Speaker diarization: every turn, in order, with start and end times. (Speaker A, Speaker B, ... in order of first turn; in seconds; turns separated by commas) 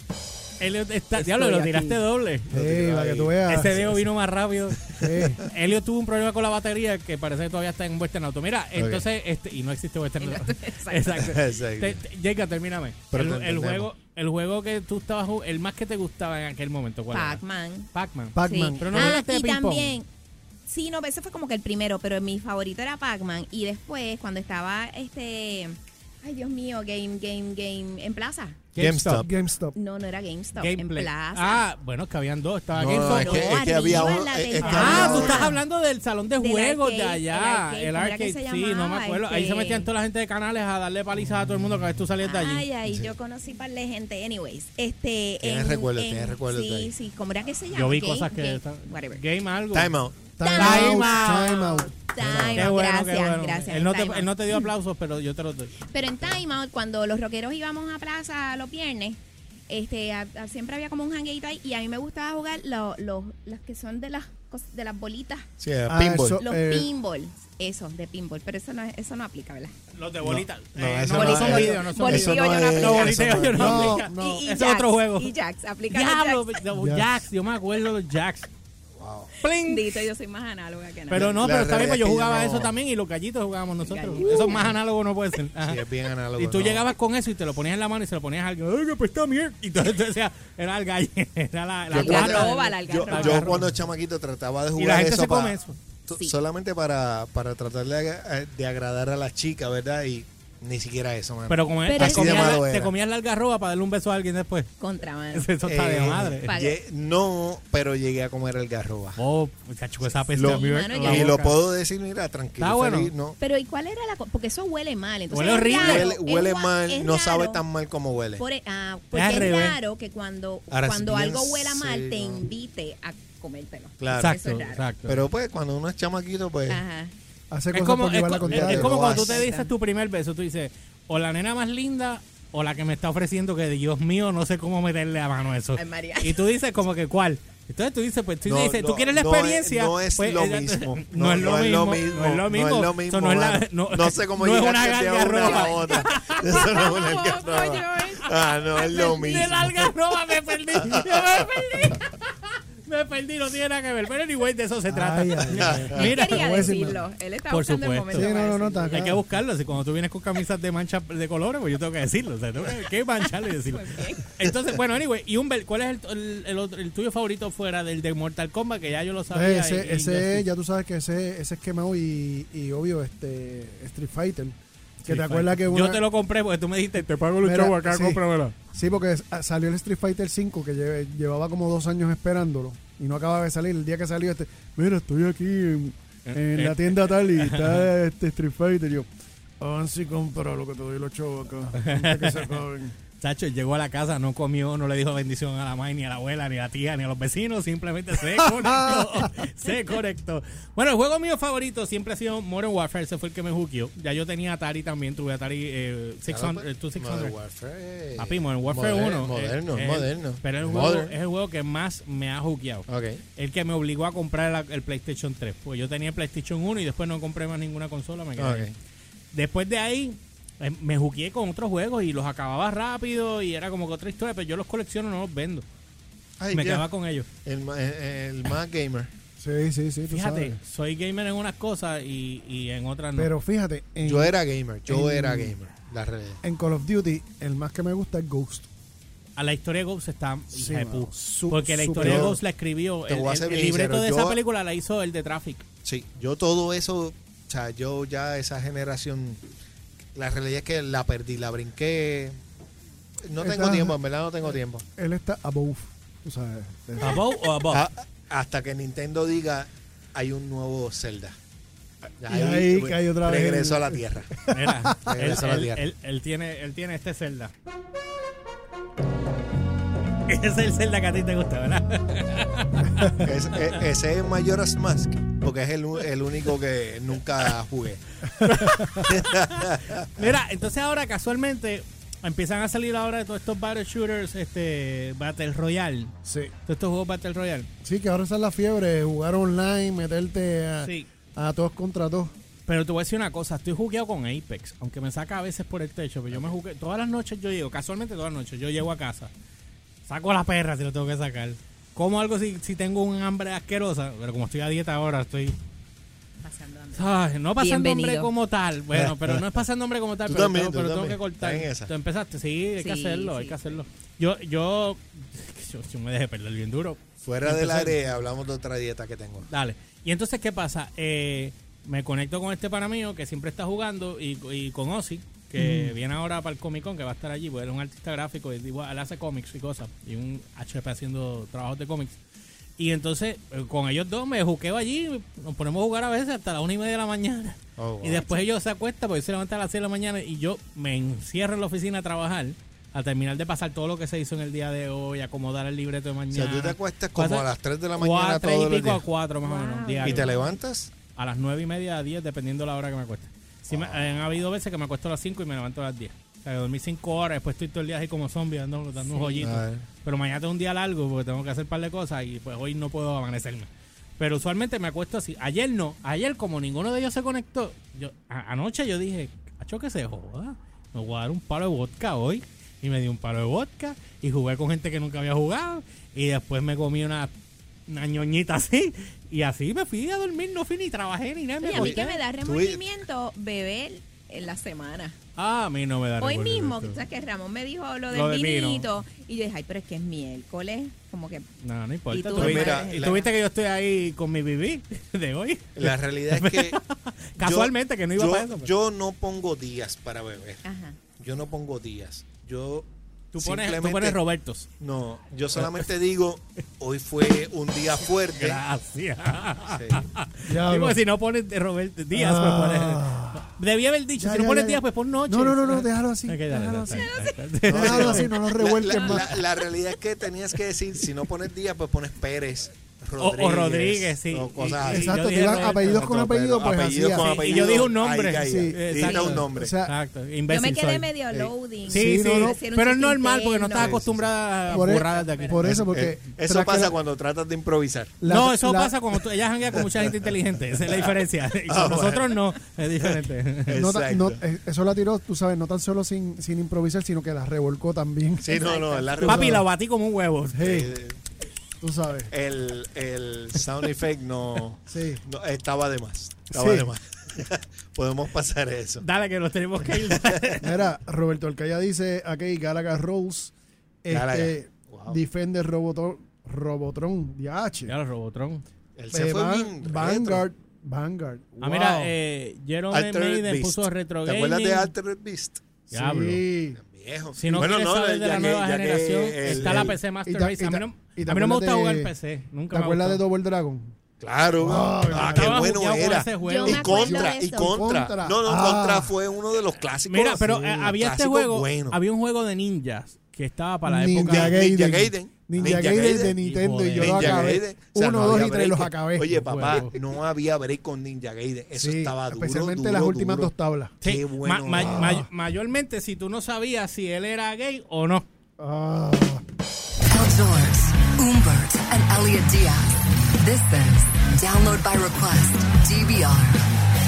Speaker A: 0.6-2.5, Speaker B: 1.2-1.9, Speaker B: 2.5-3.8, Speaker C: 2.5-4.0, Speaker A: 3.4-17.4, Speaker B: 5.0-5.4, Speaker C: 8.8-9.0, Speaker D: 10.2-11.4, Speaker C: 11.2-12.0, Speaker C: 13.1-13.9, Speaker D: 17.1-17.9, Speaker A: 17.9-20.0, Speaker B: 18.3-19.1, Speaker D: 18.4-20.1, Speaker D: 20.6-28.6, Speaker A: 28.7-29.3, Speaker C: 28.8-29.3, Speaker B: 29.2-29.8, Speaker D: 29.7-31.6, Speaker A: 30.6-42.6, Speaker C: 32.7-35.5, Speaker D: 32.9-35.5, Speaker B: 34.8-35.3, Speaker D: 36.4-39.9, Speaker D: 42.2-49.2, Speaker C: 42.9-43.1, Speaker C: 45.4-46.9, Speaker A: 47.7-49.9, Speaker C: 49.7-50.3, Speaker B: 50.4-52.6, Speaker D: 50.4-54.3, Speaker A: 50.5-51.7, Speaker C: 52.2-52.6, Speaker A: 52.5-55.8, Speaker D: 55.9-65.5, Speaker C: 65.6-66.4, Speaker B: 65.9-66.9, Speaker D: 66.4-69.7, Speaker A: 69.9-75.3, Speaker C: 70.2-74.0, Speaker D: 71.1-73.3, Speaker B: 73.5-74.5, Speaker D: 74.0-76.5, Speaker A: 75.9-78.5, Speaker B: 76.7-77.2, Speaker C: 79.0-79.3, Speaker A: 79.4-80.0, Speaker D: 79.4-81.3, Speaker C: 81.1-82.8, Speaker A: 81.1-85.8, Speaker D: 83.8-84.7, Speaker C: 85.6-86.8, Speaker A: 86.3-93.7, Speaker C: 91.9-95.5, Speaker D: 91.9-93.5, Speaker A: 94.8-95.8, Speaker C: 96.1-102.9, Speaker D: 96.1-96.3, Speaker A: 101.5-104.7, Speaker D: 101.8-102.6, Speaker D: 104.8-105.5, Speaker A: 105.3-106.5, Speaker C: 105.6-109.2, Speaker D: 106.4-106.8, Speaker A: 109.2-111.6, Speaker C: 110.0-113.4, Speaker D: 110.4-111.4, Speaker A: 112.6-113.1, Speaker D: 113.4-117.6, Speaker A: 115.3-116.1, Speaker C: 115.7-118.4, Speaker D: 118.4-124.8, Speaker A: 119.1-119.8, Speaker C: 120.7-122.4, Speaker C: 124.0-124.4, Speaker A: 124.1-125.2, Speaker C: 125.0-126.8, Speaker D: 126.7-127.1, Speaker B: 127.5-129.3, Speaker A: 127.7-147.0, Speaker C: 128.4-129.4, Speaker D: 129.1-129.7, Speaker D: 135.7-136.4, Speaker C: 138.4-149.9, Speaker D: 145.3-149.6, Speaker A: 148.9-156.7, Speaker C: 150.7-151.8, Speaker B: 154.9-157.0, Speaker C: 155.6-156.0, Speaker D: 155.9-159.1, Speaker A: 157.5-158.3, Speaker B: 158.1-159.2, Speaker A: 158.9-170.4, Speaker D: 163.6-164.2, Speaker B: 169.3-176.0, Speaker A: 175.0-178.5, Speaker B: 177.4-192.9, Speaker A: 186.3-187.9, Speaker A: 191.8-192.6, Speaker A: 193.2-207.3, Speaker B: 198.4-199.3, Speaker C: 206.3-211.1, Speaker A: 208.2-218.7, Speaker C: 212.9-213.2, Speaker C: 218.4-218.7, Speaker A: 219.3-225.6, Speaker C: 226.4-226.9, Speaker A: 226.5-227.3, Speaker C: 227.4-229.1, Speaker B: 229.4-230.6, Speaker A: 230.1-233.3, Speaker B: 233.2-235.6, Speaker C: 234.1-236.4, Speaker B: 236.4-238.7, Speaker A: 239.4-245.7, Speaker B: 240.5-242.4, Speaker C: 242.0-242.4, Speaker C: 243.1-244.4, Speaker C: 245.8-249.4, Speaker C: 250.1-252.4, Speaker C: 253.2-254.8, Speaker B: 253.4-254.0, Speaker B: 255.0-257.3, Speaker A: 257.0-257.8, Speaker C: 257.7-261.4, Speaker C: 262.2-264.3, Speaker B: 262.3-265.0, Speaker A: 264.5-267.5, Speaker C: 265.0-265.8, Speaker A: 270.3-273.8, Speaker C: 273.2-280.1, Speaker A: 278.4-286.1, Speaker B: 278.7-279.0, Speaker B: 286.2-286.5, Speaker A: 286.7-287.7, Speaker B: 287.8-292.3, Speaker A: 290.8-291.1, Speaker A: 292.7-299.3, Speaker A: 300.1-305.6, Speaker D: 306.4-308.3, Speaker A: 306.9-318.0, Speaker C: 308.9-309.6, Speaker C: 310.2-311.9, Speaker D: 312.8-313.8, Speaker C: 317.2-319.5, Speaker A: 319.5-332.2, Speaker B: 325.6-325.9, Speaker A: 332.8-350.3, Speaker C: 337.8-338.2, Speaker D: 338.1-338.4, Speaker C: 346.3-349.0, Speaker D: 349.4-350.6, Speaker C: 350.0-350.9, Speaker A: 351.1-377.3, Speaker C: 353.7-354.2, Speaker D: 359.1-359.5, Speaker C: 359.4-359.9, Speaker A: 377.9-382.2, Speaker D: 381.6-385.2, Speaker C: 381.7-382.8, Speaker A: 385.4-387.0, Speaker D: 386.2-391.4, Speaker A: 388.1-388.9, Speaker A: 391.6-398.7, Speaker D: 392.1-393.3, Speaker C: 392.3-393.3, Speaker C: 395.8-396.8, Speaker C: 397.4-400.6, Speaker D: 400.6-401.0, Speaker C: 401.2-404.2, Speaker A: 403.3-404.7, Speaker C: 404.8-408.6, Speaker A: 405.6-405.9, Speaker A: 408.1-418.4, Speaker C: 409.7-410.0, Speaker B: 410.4-411.0, Speaker B: 412.1-413.5, Speaker B: 414.2-417.1, Speaker D: 416.9-417.4, Speaker B: 417.7-419.4, Speaker C: 417.7-429.7, Speaker D: 418.8-419.2, Speaker A: 423.2-426.1, Speaker B: 424.9-429.9, Speaker A: 427.1-431.1, Speaker D: 429.0-429.4, Speaker D: 430.5-434.0, Speaker B: 431.9-432.6, Speaker A: 431.9-435.8, Speaker C: 433.8-434.3, Speaker D: 434.7-435.6, Speaker B: 434.7-436.9, Speaker C: 435.6-438.2, Speaker B: 438.2-438.9, Speaker A: 438.2-443.8, Speaker C: 440.9-441.1, Speaker C: 441.7-442.4, Speaker C: 443.7-444.4, Speaker B: 443.7-449.7, Speaker C: 448.4-449.6, Speaker D: 448.5-449.2, Speaker A: 449.2-450.7, Speaker B: 450.5-450.9, Speaker C: 450.6-451.2, Speaker B: 451.8-452.3, Speaker C: 452.3-459.0, Speaker B: 454.9-455.2, Speaker B: 456.5-456.9, Speaker A: 459.0-460.8, Speaker C: 460.1-460.4, Speaker B: 460.6-467.9, Speaker C: 464.1-465.2, Speaker A: 467.9-468.6, Speaker C: 468.9-470.4, Speaker B: 469.1-472.1, Speaker A: 471.6-474.9, Speaker C: 472.9-475.6, Speaker A: 475.9-476.4, Speaker B: 475.9-476.8, Speaker C: 476.8-480.0, Speaker A: 477.3-483.2, Speaker B: 479.5-482.1, Speaker B: 482.7-483.9, Speaker C: 484.2-492.0, Speaker B: 484.6-485.7, Speaker A: 484.9-487.2, Speaker D: 486.4-487.8, Speaker B: 487.2-489.1, Speaker A: 490.0-494.6, Speaker B: 493.9-499.9, Speaker C: 494.2-496.4, Speaker A: 495.6-497.5, Speaker C: 497.0-505.1, Speaker A: 499.4-499.9, Speaker B: 501.7-503.9, Speaker A: 504.0-508.2, Speaker B: 504.7-505.3, Speaker B: 508.6-509.4, Speaker E: 510.0-516.7